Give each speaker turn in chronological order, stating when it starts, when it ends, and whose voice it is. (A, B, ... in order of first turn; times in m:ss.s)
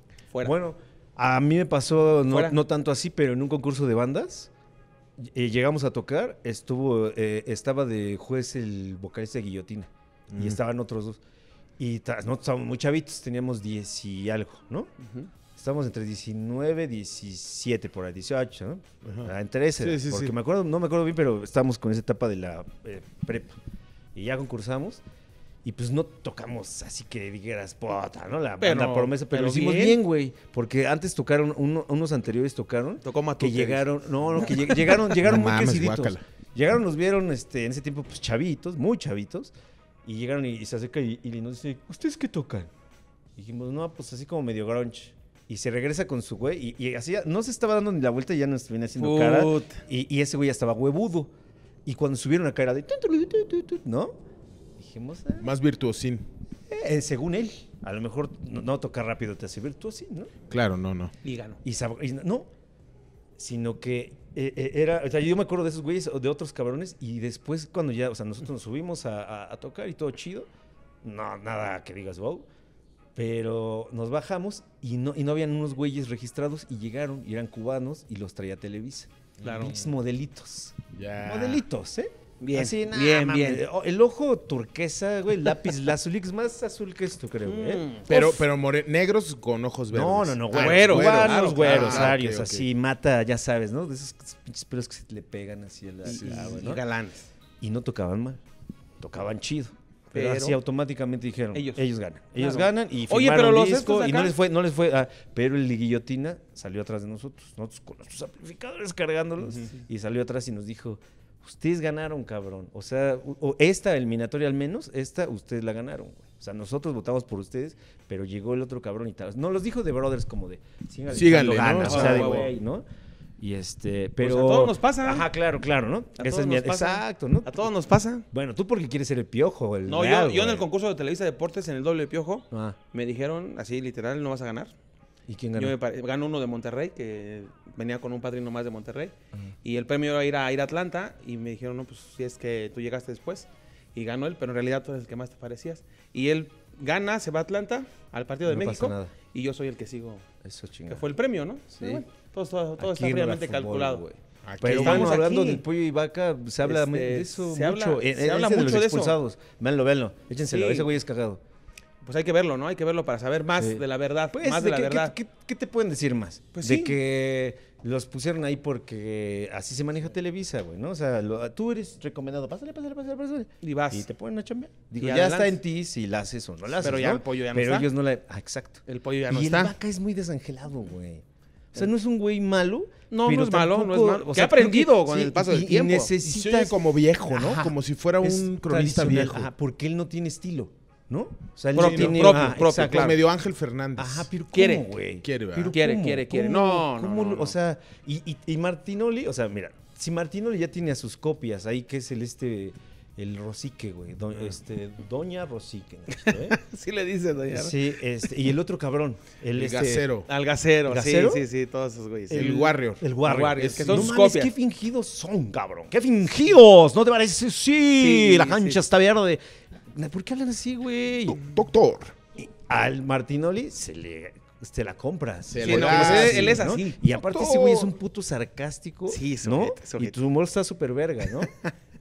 0:00.4-0:04.5 A
0:02.3-0:02.6 B
0:05.2-0:11.2 A
0:10.3-0:10.6 C
0:11.8-0:14.9 A
0:15.0-0:15.3 B
0:15.5-0:23.6 A
0:19.0-0:20.3 C
0:24.1-0:25.0 A
0:25.6-0:39.5 A
0:28.6-0:30.0 B
0:33.0-0:34.9 B
0:35.2-0:36.2 C
0:40.0-0:42.7 A
0:43.4-0:51.3 A
0:49.0-0:49.8 B
0:51.8-0:54.1 A
0:54.8-0:55.5 A
0:55.4-0:56.2 C
0:56.7-1:00.3 A
1:00.5-1:01.1 C
1:01.2-1:01.6 B
1:01.6-1:02.5 A
1:03.4-1:10.5 A
1:11.0-1:12.4 A
1:13.1-1:27.9 A
1:19.4-1:19.7 C
1:19.4-1:19.9 B
1:20.9-1:21.6 C
1:22.4-1:23.6 B
1:27.4-1:28.4 B
1:28.1-1:32.7 C
1:29.9-1:36.8 A
1:30.5-1:32.1 B
1:36.0-1:37.3 B
1:37.6-1:38.4 A
1:39.0-2:02.8 A
1:40.1-1:40.6 B
1:41.5-1:44.3 B
1:49.5-1:49.8 B
2:01.1-2:02.3 C
2:01.8-2:02.5 B
2:03.4-2:07.7 A
2:04.2-2:05.3 B
2:06.2-2:08.2 B
2:08.3-2:10.6 A
2:09.8-2:14.7 B
2:12.5-2:12.8 A
2:15.3-2:15.8 A
2:15.6-2:30.2 B
2:28.5-2:29.1 A
2:30.4-2:31.0 A
2:30.9-2:34.0 B
2:31.7-2:32.0 A
2:32.8-2:41.4 A
2:34.4-2:35.2 C
2:34.6-2:35.6 B
2:36.6-2:39.2 B
2:40.5-2:40.9 B
2:42.0-2:45.1 B
2:43.6-3:06.8 A
2:46.5-2:47.0 B
2:53.6-2:54.0 B
2:55.0-2:55.6 B
2:56.8-2:57.9 B
2:58.9-2:59.7 B
3:03.1-3:06.1 B
3:06.2-3:09.5 C
3:07.3-3:13.1 A
3:11.7-3:13.2 B
3:11.8-3:14.3 C
3:14.0-3:26.6 A
3:14.5-3:14.9 B
3:15.2-3:15.7 C
3:15.7-3:17.5 B
3:26.1-3:27.8 B
3:27.5-3:30.1 A
3:29.5-3:30.3 C
3:30.3-3:34.5 B
3:30.9-3:31.4 A
3:32.3-3:39.4 A
3:32.3-3:34.1 C
3:38.0-3:38.8 B
3:39.9-3:41.4 A
3:41.3-3:42.1 C
3:42.4-3:51.5 A
3:45.5-3:47.9 C
3:45.6-3:47.0 B
3:49.1-3:50.2 B
3:51.4-3:51.7 B